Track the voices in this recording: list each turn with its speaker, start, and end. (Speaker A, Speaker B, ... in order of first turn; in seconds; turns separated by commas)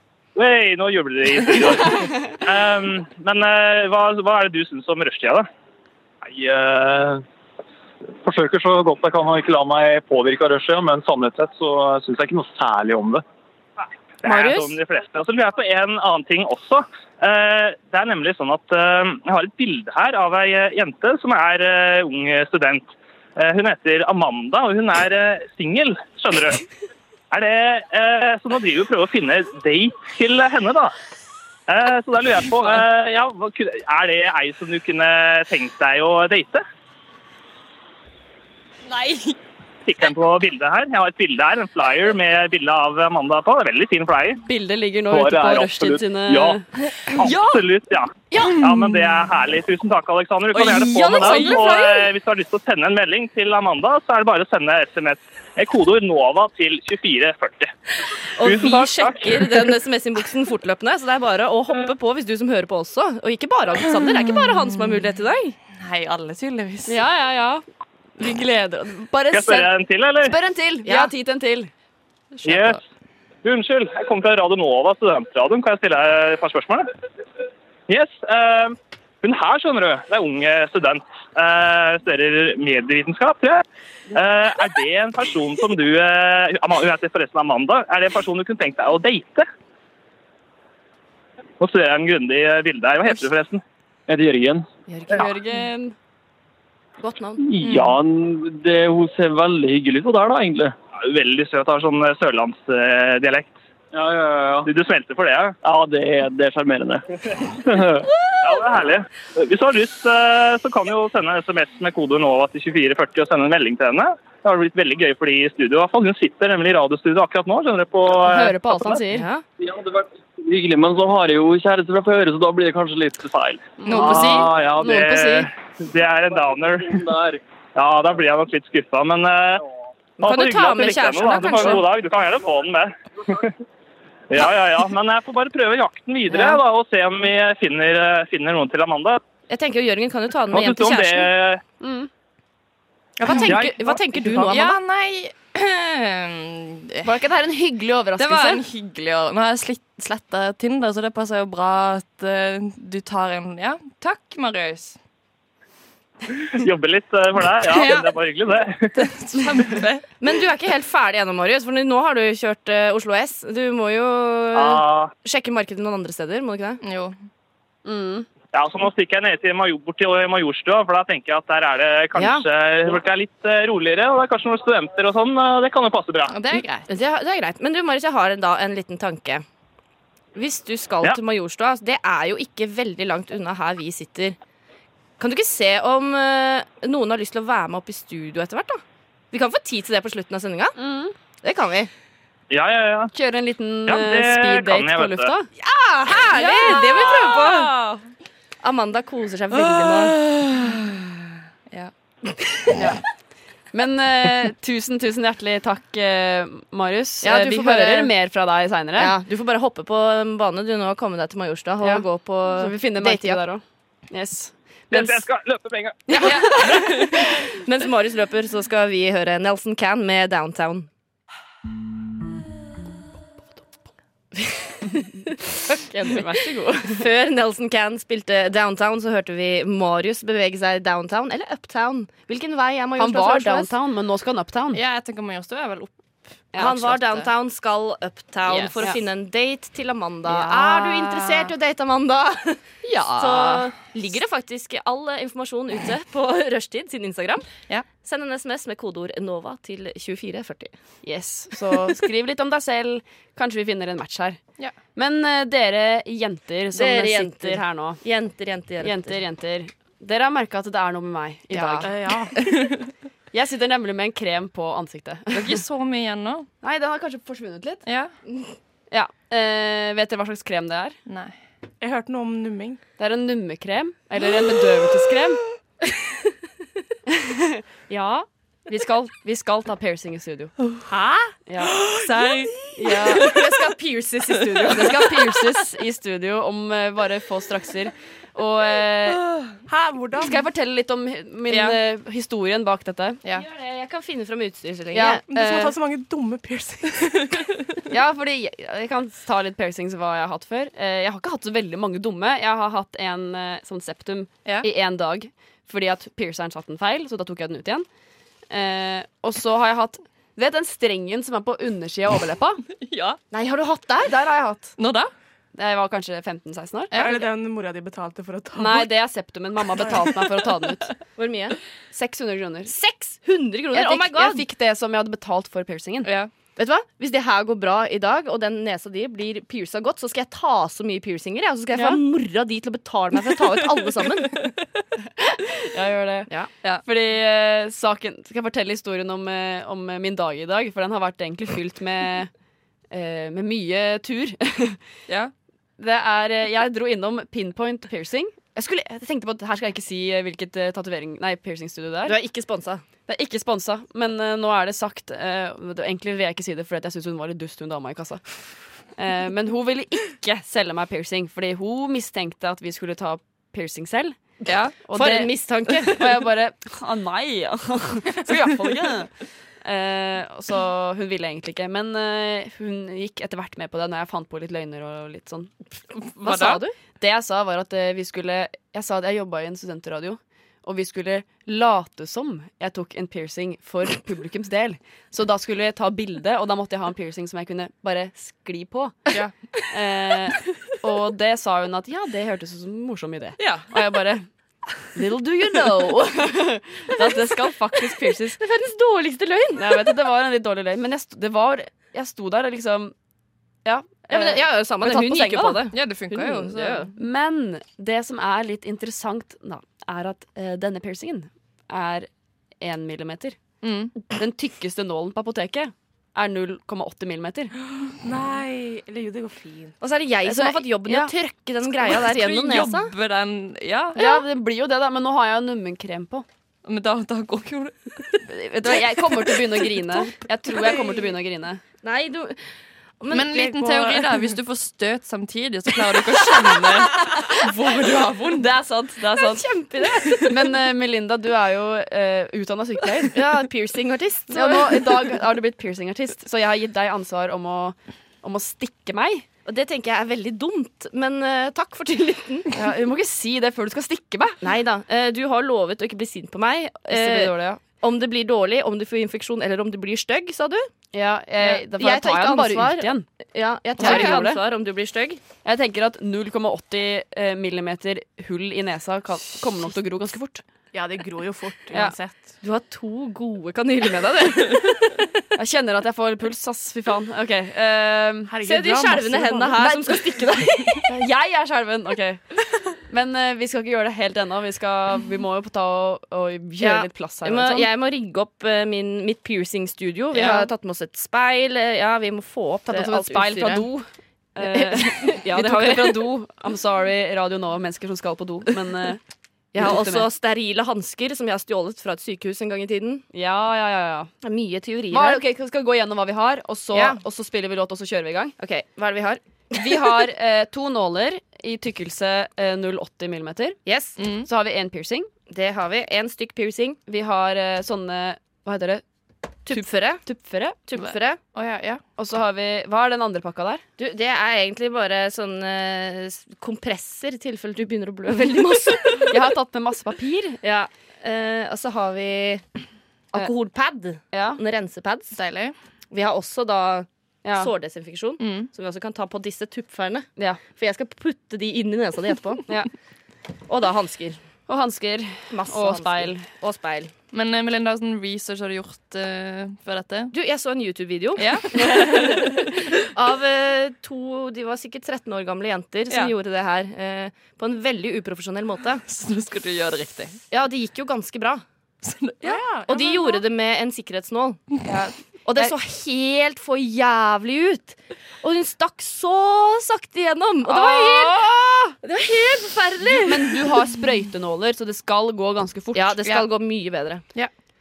Speaker A: 0.3-5.5, Speaker B: 6.2-7.2, Speaker B: 8.2-13.2, Speaker A: 14.2-26.6, Speaker C: 14.2-14.7, Speaker A: 27.3-30.9, Speaker A: 31.7-36.6, Speaker A: 39.9-44.4, Speaker D: 44.4-46.6, Speaker A: 45.1-46.6, Speaker A: 47.1-57.7, Speaker C: 50.5-52.1, Speaker D: 51.0-51.6, Speaker C: 58.4-65.6, Speaker A: 58.4-59.7, Speaker E: 64.1-65.0, Speaker E: 65.8-67.0, Speaker D: 66.9-67.6, Speaker D: 68.2-69.7, Speaker A: 69.3-70.3, Speaker D: 70.2-71.7, Speaker C: 70.8-71.1, Speaker A: 72.4-72.8, Speaker A: 73.4-76.9, Speaker A: 77.9-89.5, Speaker A: 91.6-93.6, Speaker B: 94.1-94.6, Speaker D: 94.9-95.9, Speaker C: 97.0-97.4, Speaker B: 97.4-100.7, Speaker E: 97.6-97.9, Speaker A: 101.0-103.5, Speaker B: 103.9-104.7, Speaker A: 104.7-105.6, Speaker B: 105.6-107.0, Speaker B: 107.7-108.0, Speaker A: 108.4-119.0, Speaker D: 118.2-119.2, Speaker C: 119.1-119.4, Speaker B: 119.6-123.7, Speaker D: 123.8-125.5, Speaker E: 123.8-124.5, Speaker A: 124.0-127.0, Speaker C: 124.0-124.4, Speaker B: 124.3-124.8, Speaker B: 126.9-127.4, Speaker A: 127.8-129.6, Speaker C: 130.2-131.8, Speaker A: 130.2-133.5, Speaker A: 134.3-139.2, Speaker C: 136.3-136.6, Speaker C: 139.5-141.3, Speaker A: 140.5-141.6, Speaker D: 141.8-142.1, Speaker E: 143.2-147.1, Speaker C: 143.2-144.8, Speaker D: 147.0-148.6, Speaker E: 148.2-155.0, Speaker A: 156.5-159.0, Speaker E: 157.8-158.1, Speaker E: 158.9-160.0, Speaker C: 160.2-166.8, Speaker A: 164.5-165.1, Speaker E: 166.8-167.1, Speaker D: 167.8-168.3, Speaker A: 168.5-176.3, Speaker C: 172.1-172.4, Speaker E: 176.3-176.9, Speaker C: 176.5-179.4, Speaker C: 180.3-184.3, Speaker C: 185.2-190.8, Speaker D: 190.8-191.1, Speaker C: 191.4-191.9, Speaker A: 192.5-193.1, Speaker D: 193.1-195.5, Speaker A: 193.9-195.3, Speaker C: 195.6-197.7, Speaker D: 196.4-197.2, Speaker E: 196.6-197.9, Speaker C: 198.6-200.2, Speaker E: 199.7-201.0, Speaker D: 203.7-209.1, Speaker C: 207.2-208.1, Speaker C: 208.9-213.4, Speaker D: 212.6-215.2, Speaker A: 214.9-216.1, Speaker D: 216.1-217.1, Speaker C: 216.1-220.9, Speaker C: 224.4-233.7, Speaker D: 225.9-227.0, Speaker D: 233.0-234.8, Speaker E: 234.7-235.9, Speaker D: 236.5-236.9, Speaker E: 236.5-237.3, Speaker C: 236.6-242.6, Speaker D: 238.5-239.0, Speaker D: 240.3-241.5, Speaker D: 242.8-243.6, Speaker C: 243.2-250.7, Speaker D: 251.0-254.4, Speaker D: 254.9-258.0, Speaker C: 256.7-259.1, Speaker D: 258.8-261.9, Speaker C: 261.5-261.9, Speaker F: 261.8-262.4, Speaker D: 263.3-265.6, Speaker E: 265.3-266.5, Speaker D: 266.6-267.8, Speaker E: 267.8-268.1, Speaker C: 268.3-268.5, Speaker D: 268.9-270.9, Speaker E: 271.1-271.4, Speaker F: 271.8-272.8, Speaker D: 273.0-275.4, Speaker D: 277.1-280.5, Speaker F: 280.9-281.3, Speaker D: 281.5-281.8, Speaker E: 282.0-283.5, Speaker D: 282.7-289.2, Speaker F: 289.7-290.3, Speaker D: 290.2-293.2, Speaker C: 293.3-295.2, Speaker D: 294.9-295.7, Speaker F: 295.3-297.3, Speaker D: 297.9-307.9, Speaker D: 308.5-312.6, Speaker E: 312.8-313.2, Speaker C: 313.3-314.1, Speaker D: 314.1-314.8, Speaker E: 314.8-315.1, Speaker D: 315.5-317.0, Speaker E: 316.9-317.2, Speaker F: 316.9-318.9, Speaker D: 318.5-320.9, Speaker C: 321.1-321.6, Speaker D: 321.9-322.7, Speaker C: 322.7-324.4, Speaker D: 323.7-326.1, Speaker E: 326.0-326.3, Speaker C: 326.5-334.5, Speaker D: 331.7-332.0, Speaker D: 335.3-336.3, Speaker D: 336.8-342.3, Speaker D: 342.9-344.8, Speaker D: 345.8-352.2, Speaker C: 352.0-352.8, Speaker D: 353.1-358.3, Speaker D: 358.9-364.2, Speaker E: 364.4-364.8, Speaker C: 364.5-366.2, Speaker D: 364.8-369.1, Speaker D: 369.6-375.5, Speaker D: 376.2-389.0, Speaker C: 376.2-376.7, Speaker E: 376.3-376.6, Speaker D: 389.7-394.2, Speaker E: 393.4-393.7, Speaker D: 394.9-398.4, Speaker C: 398.3-399.9, Speaker D: 399.6-402.9, Speaker D: 403.6-405.7, Speaker C: 404.1-406.9, Speaker E: 405.7-406.9, Speaker D: 406.5-412.1, Speaker D: 412.6-413.4, Speaker E: 413.6-413.9, Speaker D: 414.1-417.5, Speaker F: 417.9-419.7, Speaker C: 419.8-422.9, Speaker D: 420.2-421.1, Speaker E: 421.8-424.1, Speaker D: 423.9-426.2, Speaker E: 426.6-428.2, Speaker D: 428.3-431.6, Speaker C: 431.8-432.4, Speaker C: 433.0-434.1, Speaker E: 433.1-438.4, Speaker D: 438.3-439.4, Speaker C: 439.1-440.5, Speaker D: 440.2-443.2, Speaker C: 443.1-445.1, Speaker D: 444.3-449.2, Speaker C: 449.4-452.5, Speaker D: 452.5-454.4, Speaker C: 454.4-460.7, Speaker D: 456.9-457.6, Speaker D: 460.9-463.1, Speaker C: 461.4-465.2, Speaker D: 463.8-464.4, Speaker D: 465.4-470.4, Speaker F: 470.7-472.4, Speaker D: 471.7-471.9, Speaker C: 472.4-475.1, Speaker D: 475.3-478.3, Speaker F: 478.3-479.7, Speaker C: 478.4-480.9, Speaker D: 480.9-482.2, Speaker D: 482.9-487.7, Speaker C: 486.6-493.7, Speaker D: 490.1-490.5, Speaker D: 492.7-499.0, Speaker C: 494.4-496.1, Speaker C: 499.5-503.1, Speaker D: 499.5-500.1, Speaker D: 503.1-504.1, Speaker C: 504.2-505.2, Speaker D: 504.9-508.3, Speaker C: 506.7-507.0, Speaker C: 508.4-510.1, Speaker D: 509.5-513.6, Speaker C: 513.6-514.0, Speaker E: 514.0-514.3, Speaker D: 514.2-515.1, Speaker C: 515.3-516.8, Speaker D: 516.9-518.8, Speaker C: 519.5-520.0, Speaker D: 519.5-520.6, Speaker C: 520.7-521.2, Speaker E: 520.8-521.8, Speaker D: 522.0-523.6, Speaker C: 523.8-529.2, Speaker D: 529.0-530.4, Speaker C: 530.4-532.4, Speaker C: 533.1-535.1, Speaker D: 534.1-534.4, Speaker E: 535.1-535.5, Speaker C: 535.9-542.5, Speaker D: 537.2-537.5, Speaker E: 538.2-538.5, Speaker C: 543.5-544.2, Speaker D: 544.5-546.2, Speaker C: 545.3-546.9, Speaker E: 547.1-550.1, Speaker C: 550.1-558.8, Speaker E: 551.2-552.4, Speaker D: 551.5-552.3, Speaker E: 558.8-560.2, Speaker C: 560.3-561.4, Speaker E: 561.8-562.4, Speaker F: 562.2-563.2, Speaker C: 562.6-564.4, Speaker D: 564.7-565.5, Speaker C: 565.2-571.3, Speaker D: 570.4-571.7, Speaker C: 571.8-573.5, Speaker D: 573.0-576.2, Speaker C: 575.7-577.0